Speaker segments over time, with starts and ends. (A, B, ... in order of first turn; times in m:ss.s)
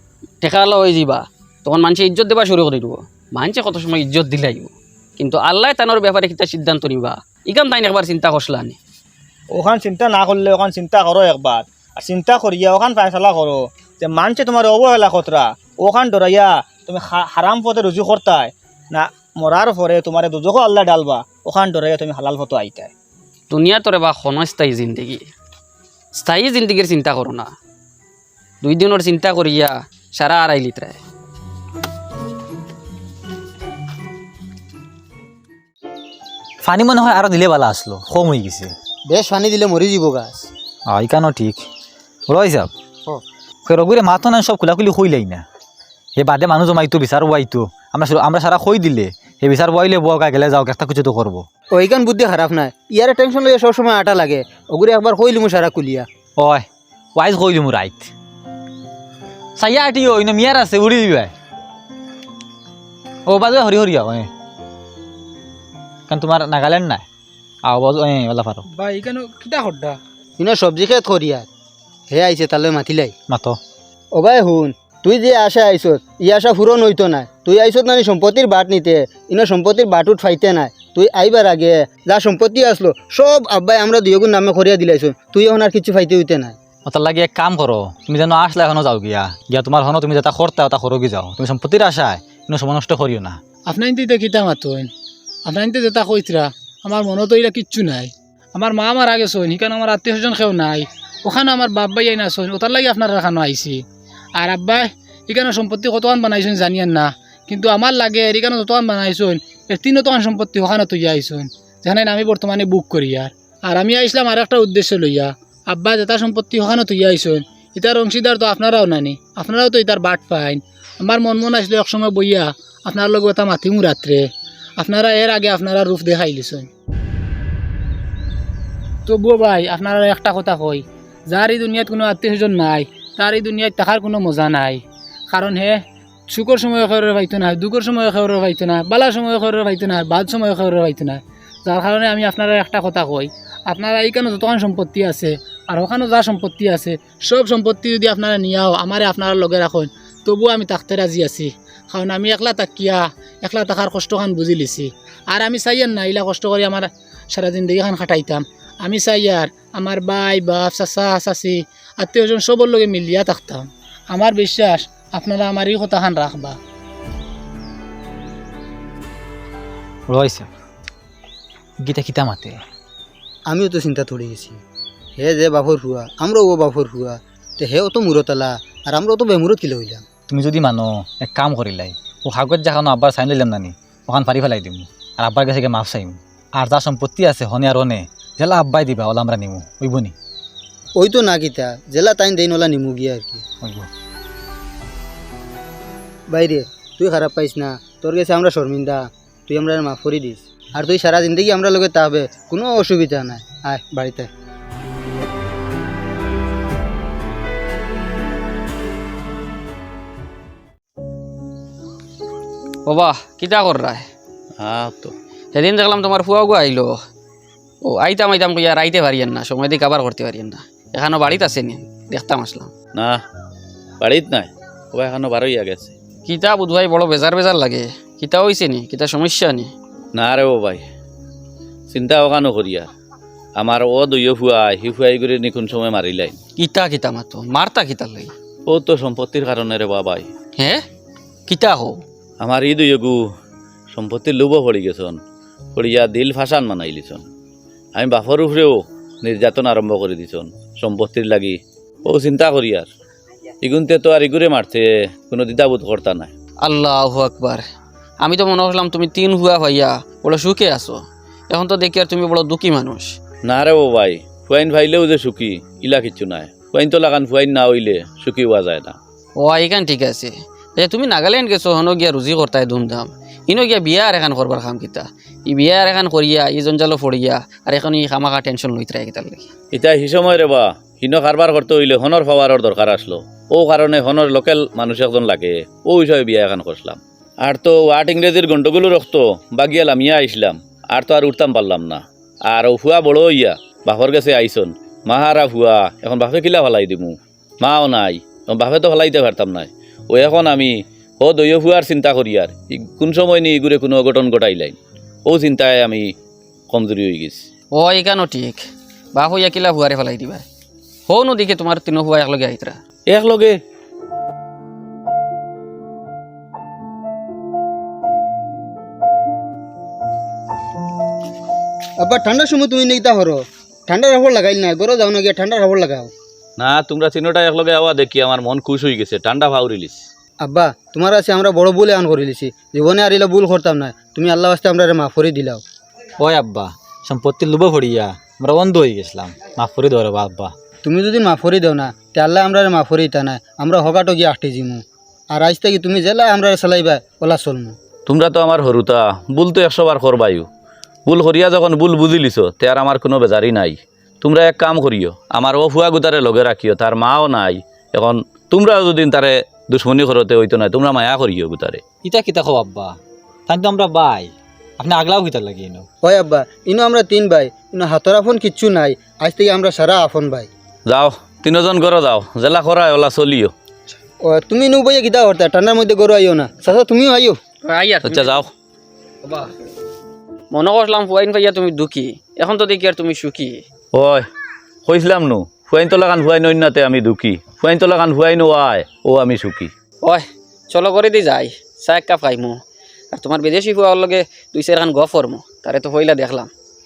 0:00.4-0:08.8 A
0:09.6-0:22.9 B
0:23.5-0:25.3 A
0:26.1-0:27.5 A
0:28.6-0:31.0 A
0:36.6-0:38.7 C
0:39.1-0:40.5 D
0:40.9-0:41.7 C
0:42.3-0:42.7 C
0:43.7-0:45.4 C
0:46.2-0:51.4 C
0:51.7-0:56.1 D
0:56.4-0:58.1 C
0:59.6-1:01.3 C
1:03.3-1:04.3 C
1:06.1-1:07.0 C
1:07.6-1:08.7 C
1:08.7-1:10.0 E
1:10.4-1:11.5 D
1:12.1-1:13.1 D
1:13.3-1:13.6 C
1:14.1-1:26.6 D
1:26.9-1:33.4 C
1:33.7-1:34.9 E
1:35.5-1:43.8 E
1:44.4-2:04.3 E
2:04.8-2:06.7 E
2:09.1-2:46.6 E
2:50.1-2:50.5 C
2:51.8-2:52.6 C
2:53.5-2:54.6 D
2:55.2-3:00.0 D
3:00.3-3:10.2 C
3:11.0-3:13.4 D
3:13.6-3:13.9 C
3:16.3-3:24.3 D
3:32.8-3:34.1 A
3:34.6-3:35.2 F
3:35.5-3:37.0 A
3:37.8-3:42.7 A
3:44.0-3:45.9 F
3:46.2-3:49.7 A
3:50.1-3:50.8 F
3:51.9-3:52.9 F
3:53.6-3:56.4 F
3:56.6-3:58.3 A
3:58.7-4:00.3 F
4:00.6-4:00.8 A
4:01.5-4:02.0 A
4:02.4-4:03.2 F
4:03.9-4:05.2 F
4:05.8-4:07.2 F
4:08.0-4:12.9 F
4:13.6-4:16.3 F
4:16.6-4:17.6 A
4:18.2-4:23.1 A
4:23.4-4:29.0 F
4:29.4-4:39.5 A
4:39.7-5:06.1 F
5:06.7-5:07.4 F
5:07.7-5:08.6 A
5:09.1-5:10.4 A
5:11.1-5:12.8 A
5:13.1-5:13.6 F
5:22.0-5:26.1 D
5:26.6-5:30.0 F
5:30.4-5:35.6 D
5:36.2-5:40.5 C
5:40.8-5:47.8 D
5:48.1-5:50.5 F
5:51.1-6:01.8 F
6:02.0-6:05.9 C
6:06.0-6:10.5 D
6:10.9-6:13.5 F
6:14.2-6:17.4 D
6:17.6-6:18.4 A
6:18.0-6:18.5 F
6:19.2-6:19.5 A
6:20.5-6:23.6 A
6:23.9-6:24.3 F
6:24.9-6:29.7 F
6:30.0-6:32.6 A
6:33.1-6:36.5 A